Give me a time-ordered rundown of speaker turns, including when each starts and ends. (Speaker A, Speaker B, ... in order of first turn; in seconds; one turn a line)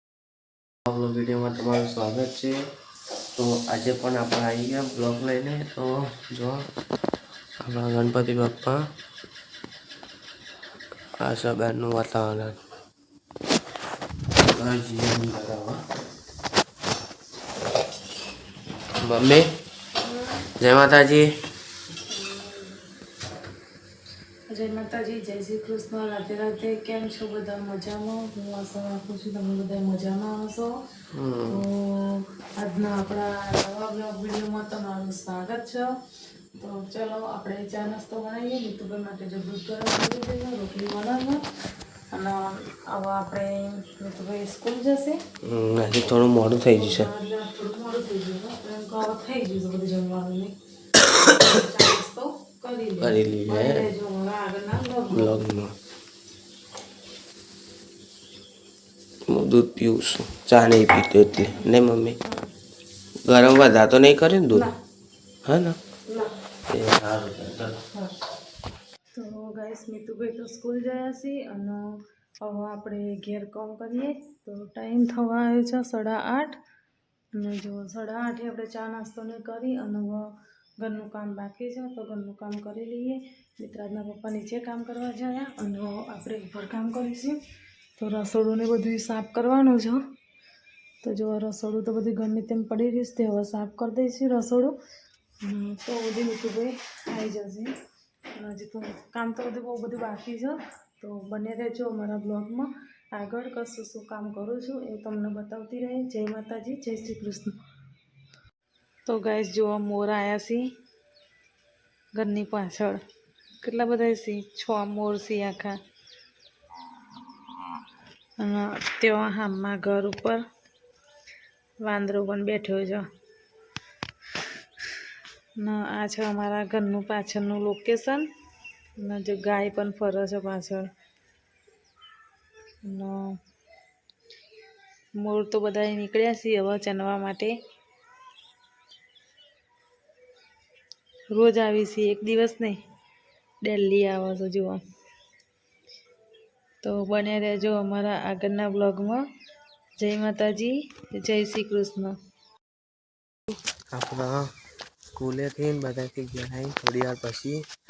Speaker A: 0.9-2.6
Speaker A: 3.4-6.7
Speaker A: 7.6-8.8
Speaker A: 11.2-12.6
Speaker A: 14.5-15.8
Speaker A: 19.0-19.5
Speaker A: 20.6-21.3
Speaker B: 22.1-22.8
Speaker B: 24.5-30.7
Speaker A: 31.1-31.6
Speaker B: 31.5-35.9
Speaker B: 36.6-41.4
Speaker B: 42.1-45.2
Speaker A: 45.4-47.1
Speaker B: 46.7-50.5
Speaker B: 51.4-55.4
Speaker A: 53.0-53.8
Speaker A: 55.1-55.7
Speaker A: 59.3-62.2
Speaker A: 63.2-64.7
Speaker A: 65.5-65.8
Speaker A: 66.7-67.8
Speaker B: 69.1-76.6
Speaker B: 77.3-80.2
Speaker B: 80.8-87.4
Speaker B: 88.0-90.0
Speaker B: 91.0-94.7
Speaker B: 95.4-97.7
Speaker B: 98.4-107.5
Speaker B: 109.1-110.7
Speaker B: 112.2-113.0
Speaker B: 113.6-115.8
Speaker B: 118.4-120.4
Speaker B: 121.8-123.0
Speaker B: 125.6-128.2
Speaker B: 129.0-130.9
Speaker B: 132.8-133.2
Speaker B: 135.2-137.5
Speaker B: 141.3-142.8
Speaker B: 143.6-144.8
Speaker B: 146.8-149.2
Speaker B: 150.0-152.1
Speaker A: 153.9-154.5
Speaker A: 155.2-157.7